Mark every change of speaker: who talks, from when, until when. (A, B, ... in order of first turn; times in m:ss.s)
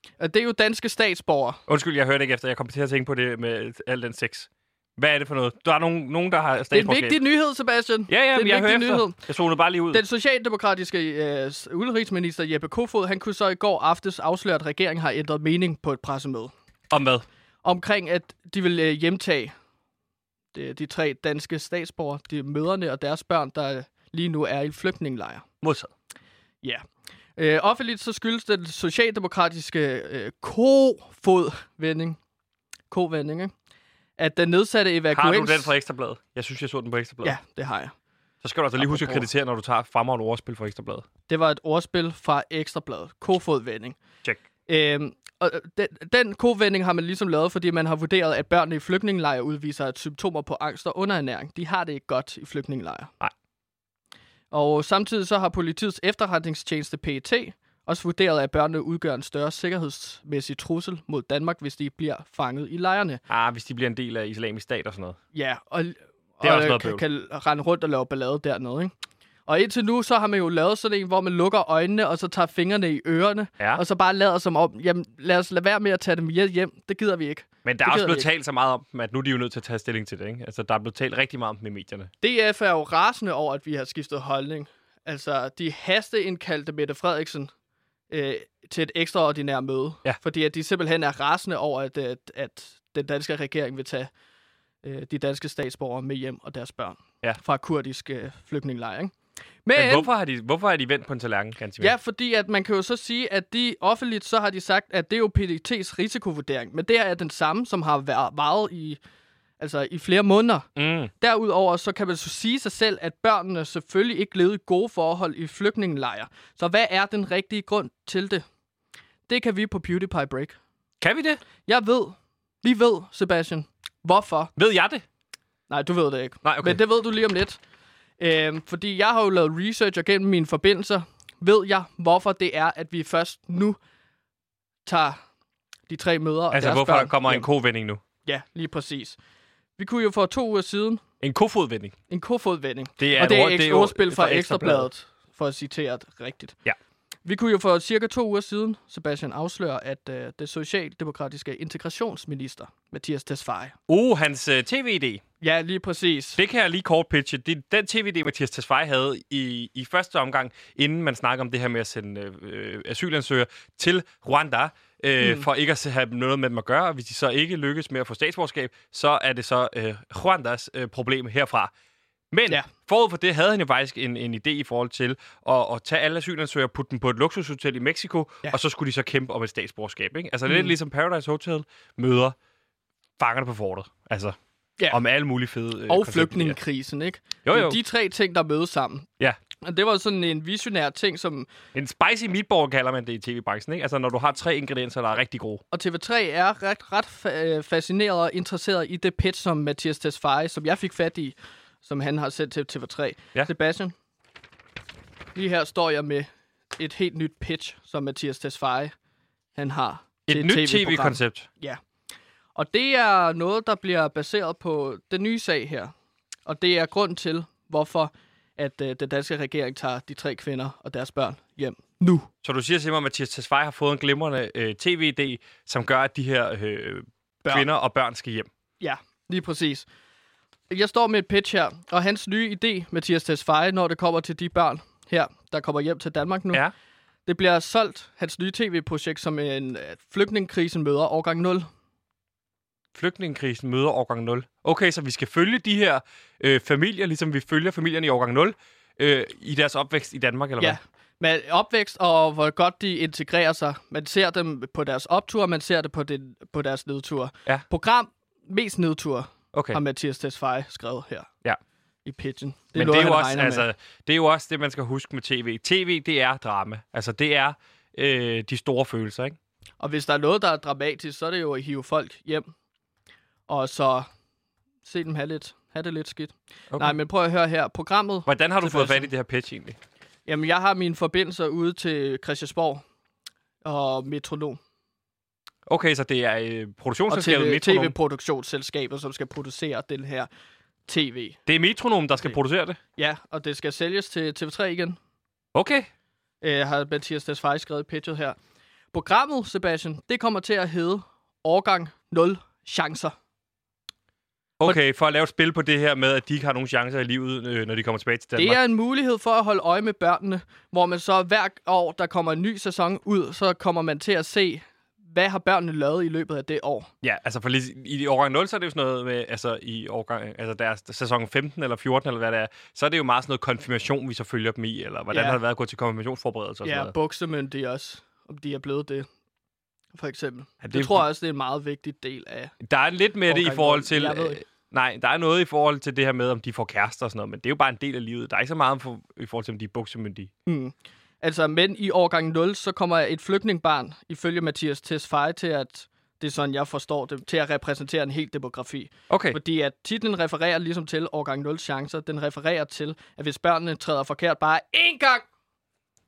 0:00.2-0:01.6 A
0:01.7-0:07.2 B
0:06.7-0:09.2 A
0:08.1-0:10.0 B
0:09.9-0:16.5 A
0:16.9-0:17.2 B
0:17.6-0:19.5 A
0:20.5-0:25.4 A
0:25.6-0:25.9 B
0:27.4-0:32.2 A
0:32.9-0:33.5 A
0:34.2-0:35.7 A
0:35.1-0:37.4 B
0:37.2-0:38.0 A
0:38.4-0:41.0 B
0:38.8-0:39.2 A
0:41.3-0:44.0 A
0:44.7-0:53.1 A
0:54.5-1:03.2 A
1:03.3-1:05.2 B
1:05.3-1:08.9 A
1:06.4-1:07.0 B
1:09.5-1:18.3 A
1:17.6-1:22.1 B
1:22.2-1:27.5 A
1:28.1-1:34.1 A
1:34.8-1:39.1 A
1:39.6-1:40.1 A
1:39.8-1:42.0 B
1:41.8-1:49.0 A
1:49.6-1:50.7 A
1:50.8-1:51.1 B
1:51.2-1:58.4 A
1:59.3-2:00.6 A
2:01.0-2:01.4 B
2:01.6-2:04.5 A
2:04.6-2:05.0 B
2:05.7-2:07.6 A
2:06.4-2:06.8 B
2:08.2-2:13.8 A
2:14.8-2:15.2 A
2:15.9-2:17.5 A
2:16.5-2:18.0 B
2:18.2-2:19.2 A
2:19.8-2:21.0 A
2:21.2-2:22.0 B
2:22.1-2:26.6 A
2:23.0-2:24.9 B
2:27.2-2:33.8 A
2:33.9-2:35.2 B
2:35.4-2:36.4 A
2:36.4-2:51.7 B
2:45.2-2:45.5 A
2:52.3-3:02.4 B
3:00.5-3:00.7 A
3:03.2-3:04.4 B
3:04.9-3:06.6 B
3:05.9-3:09.1 A
3:07.5-3:07.8 B
3:09.6-3:11.5 A
3:11.7-3:15.6 B
3:15.7-3:23.9 A
3:25.3-3:28.9 A
3:29.6-3:31.8 A
3:30.3-3:31.5 B
3:32.5-3:35.9 A
3:36.5-3:42.3 A
3:42.4-3:48.5 B
3:48.8-3:49.8 A
3:50.7-3:56.6 A
3:57.2-4:01.7 A
4:03.0-4:10.8 B
4:10.6-4:21.3 A
4:19.5-4:19.8 B
4:22.0-4:23.7 A
4:22.8-4:29.4 B
4:29.8-4:32.5 A
4:33.5-4:34.1 A
4:34.8-4:39.1 A
4:38.2-4:39.8 B
4:40.2-4:42.8 A
4:43.6-4:44.6 A
4:45.7-4:48.0 B
4:47.1-4:50.3 A
4:50.9-4:51.4 A
4:51.5-4:52.8 B
4:53.0-4:55.0 A
4:55.5-4:55.9 B
4:56.4-4:58.4 A
4:58.9-5:03.2 A
5:04.6-5:08.6 B
5:08.4-5:16.9 A
5:17.0-5:26.9 B
5:25.1-5:25.4 A
5:26.6-5:29.1 A
5:30.0-5:32.5 A
5:30.6-5:31.0 B
5:32.6-5:40.3 B
5:33.3-5:34.4 A
5:40.5-5:55.2 A
5:49.1-5:49.4 B